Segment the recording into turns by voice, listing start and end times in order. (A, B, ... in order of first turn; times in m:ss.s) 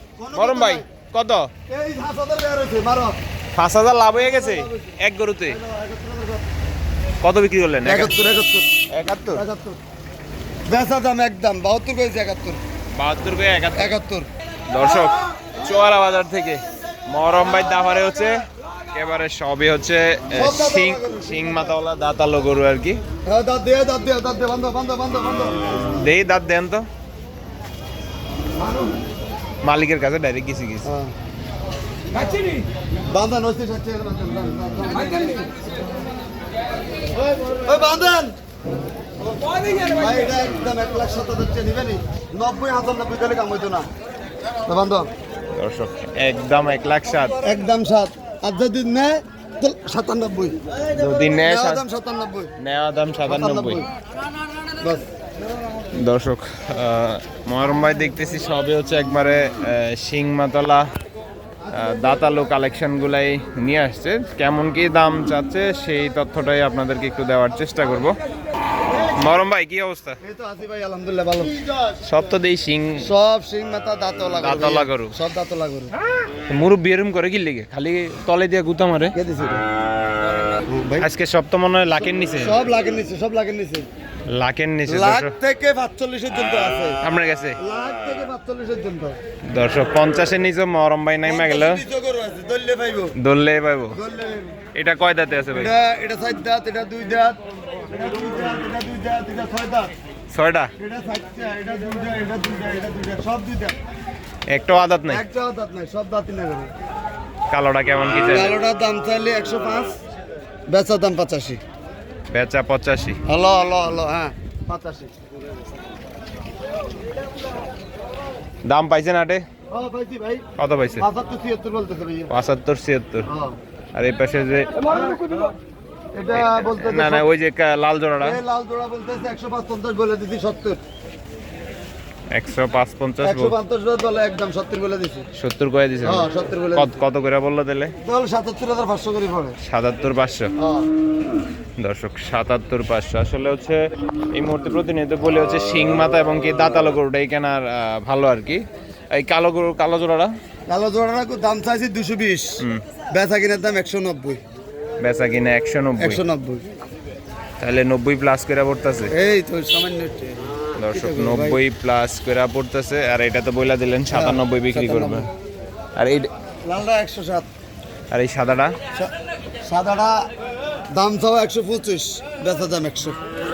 0:00.2-0:00.8 A
0:00.3-0:01.5 B
0:01.7-0:03.2 A
0:03.6-0:05.6 B
0:04.1-0:04.9 A
0:05.5-0:06.4 A
0:07.2-0:08.1 B
0:07.8-0:08.7 A
0:08.9-0:09.4 B
0:09.3-0:09.8 A
0:10.7-0:12.6 A
0:12.9-0:13.9 B
0:13.7-0:14.3 A
0:14.7-0:23.0 B
0:20.3-0:21.8 A
0:23.2-0:26.0 A
0:25.9-0:26.8 B
0:29.6-0:30.9 B
0:30.8-0:31.1 A
0:33.1-0:35.5 A
0:37.4-0:38.3 A
0:39.7-0:43.9 A
0:44.6-0:45.1 A
0:45.5-0:47.4 B
0:47.4-0:50.6 A
0:50.9-0:51.8 B
0:51.4-0:52.5 A
0:52.6-0:53.8 B
0:53.2-0:53.9 A
0:54.8-0:55.1 A
0:55.9-1:00.8 B
1:01.7-1:08.2 B
1:09.1-1:10.2 B
1:10.2-1:11.6 A
1:12.0-1:13.1 B
1:13.0-1:15.9 A
1:14.4-1:15.1 B
1:16.5-1:19.2 B
1:19.1-1:19.6 A
1:20.7-1:21.1 A
1:21.0-1:22.6 B
1:22.4-1:23.9 A
1:24.3-1:25.3 B
1:24.8-1:27.0 A
1:27.0-1:27.6 B
1:27.6-1:29.2 A
1:29.5-1:31.8 B
1:31.2-1:33.1 A
1:33.2-1:34.0 B
1:33.9-1:34.6 A
1:34.7-1:35.7 B
1:35.5-1:37.4 A
1:37.9-1:39.9 A
1:40.3-1:40.7 B
1:40.8-1:43.7 A
1:44.5-1:45.2 B
1:45.1-1:46.7 A
1:47.5-1:48.6 B
1:48.1-1:49.9 A
1:50.7-1:51.6 A
1:52.3-1:53.2 B
1:53.2-1:55.2 A
1:58.6-1:59.4 B
1:59.7-2:00.4 A
2:00.6-2:01.1 B
2:01.0-2:02.3 A
2:02.3-2:03.3 B
2:03.3-2:03.6 A
2:03.9-2:04.7 B
2:04.8-2:05.4 A
2:06.1-2:07.2 A
2:06.4-2:08.4 B
2:08.2-2:10.8 A
2:12.3-2:13.5 B
2:13.2-2:15.2 A
2:15.3-2:17.9 B
2:16.0-2:16.9 A
2:18.0-2:19.6 A
2:19.6-2:20.5 B
2:20.6-2:20.9 A
2:21.8-2:30.3 B
2:30.7-2:34.4 A
2:35.0-2:36.2 B
2:36.0-2:36.6 A
2:37.6-2:39.1 B
2:39.1-2:41.6 A
2:40.8-2:45.3 B
2:44.1-2:45.2 A
2:46.0-2:46.3 B
2:46.6-2:47.5 A
2:48.1-2:48.7 B
2:49.6-2:50.2 A
2:50.9-2:53.2 A